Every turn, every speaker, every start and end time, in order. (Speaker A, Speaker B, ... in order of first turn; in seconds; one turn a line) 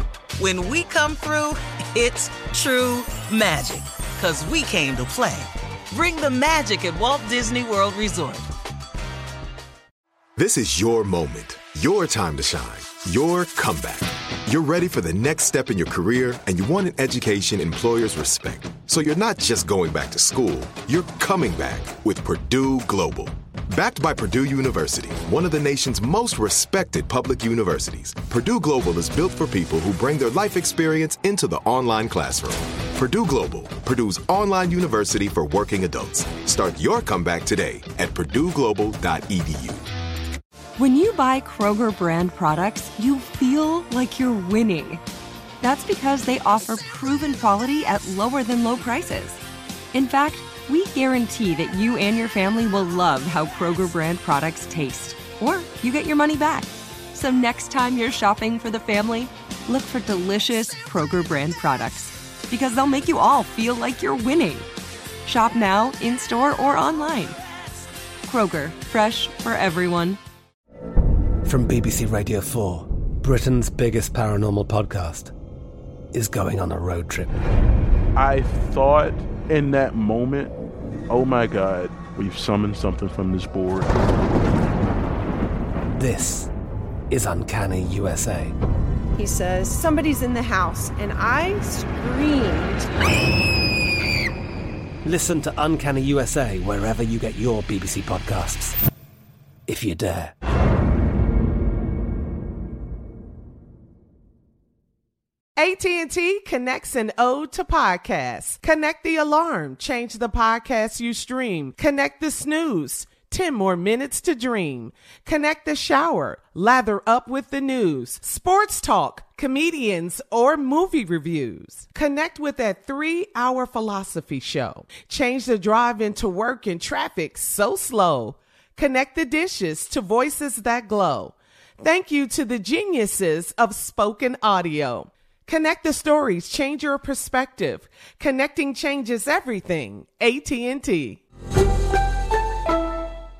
Speaker A: 0.4-8.5
Speaker B: 10.4-39.8
Speaker C: 40.8-45.0
Speaker C: 45.6-49.4
Speaker C: 49.9-64.7
Speaker C: 65.2-67.4
Speaker C: 68.2-70.2
Speaker D: 71.4-75.3
Speaker D: 76.1-77.3
Speaker E: 78.2-80.5
Speaker E: 81.1-83.9
Speaker D: 86.0-86.5
Speaker D: 87.1-88.5
Speaker F: 89.2-92.9
Speaker D: 95.0-98.8
Speaker D: 99.7-100.3
Speaker G: 105.6-141.2